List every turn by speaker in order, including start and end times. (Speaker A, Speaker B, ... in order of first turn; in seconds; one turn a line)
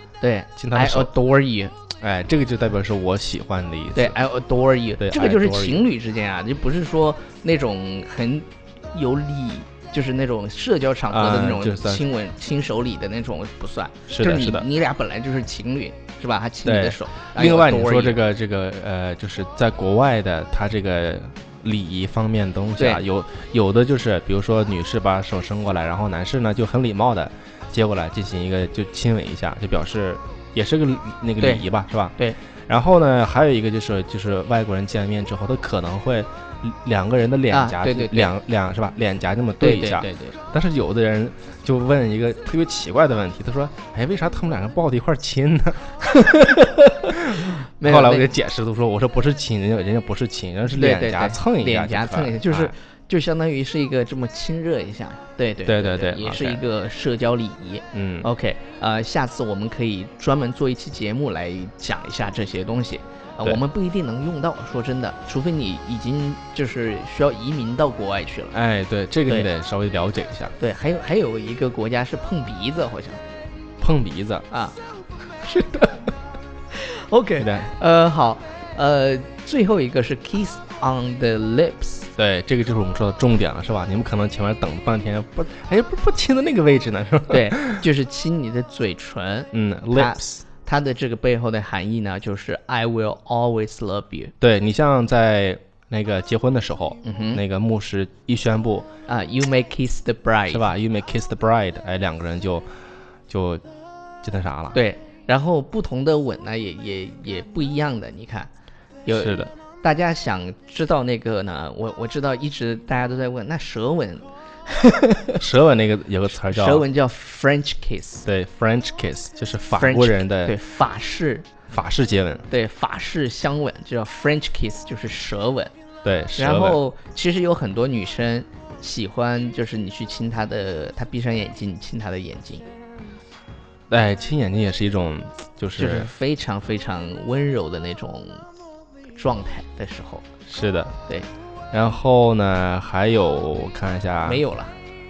Speaker A: 0.2-1.7
Speaker B: 0.6-1.1
Speaker B: 2.0-4.2
Speaker A: 3.9-18.2
Speaker B: 5.0-5.8
Speaker B: 11.1-12.0
Speaker B: 14.1-14.7
Speaker B: 16.6-32.1
Speaker B: 32.7-45.8
Speaker A: 37.5-38.3
Speaker A: 39.6-40.4
Speaker A: 46.0-48.3
Speaker B: 47.3-52.7
Speaker A: 50.6-68.5
Speaker B: 55.6-56.6
Speaker B: 57.9-58.3
Speaker B: 68.5-70.5
Speaker A: 70.6-73.2
Speaker B: 73.8-74.5
Speaker A: 74.5-74.8
Speaker A: 75.4-76.1
Speaker A: 76.7-82.1
Speaker B: 77.4-77.7
Speaker B: 82.2-87.8
Speaker A: 87.3-94.3
Speaker B: 89.5-90.4
Speaker B: 94.4-98.9
Speaker A: 97.0-97.4
Speaker A: 99.1-100.7
Speaker B: 100.5-102.7
Speaker B: 103.3-103.6
Speaker B: 104.2-104.8
Speaker A: 104.7-108.5
Speaker A: 109.0-115.4
Speaker B: 109.1-109.5
Speaker B: 115.4-116.8
Speaker A: 116.5-118.3
Speaker B: 118.2-120.5
Speaker A: 119.7-121.5
Speaker B: 121.7-122.5
Speaker A: 122.5-125.7
Speaker B: 126.0-126.8
Speaker A: 126.4-132.6
Speaker B: 133.9-136.1
Speaker A: 135.8-138.4
Speaker A: 139.1-140.2
Speaker B: 140.5-140.9
Speaker B: 141.7-144.4
Speaker A: 144.2-144.8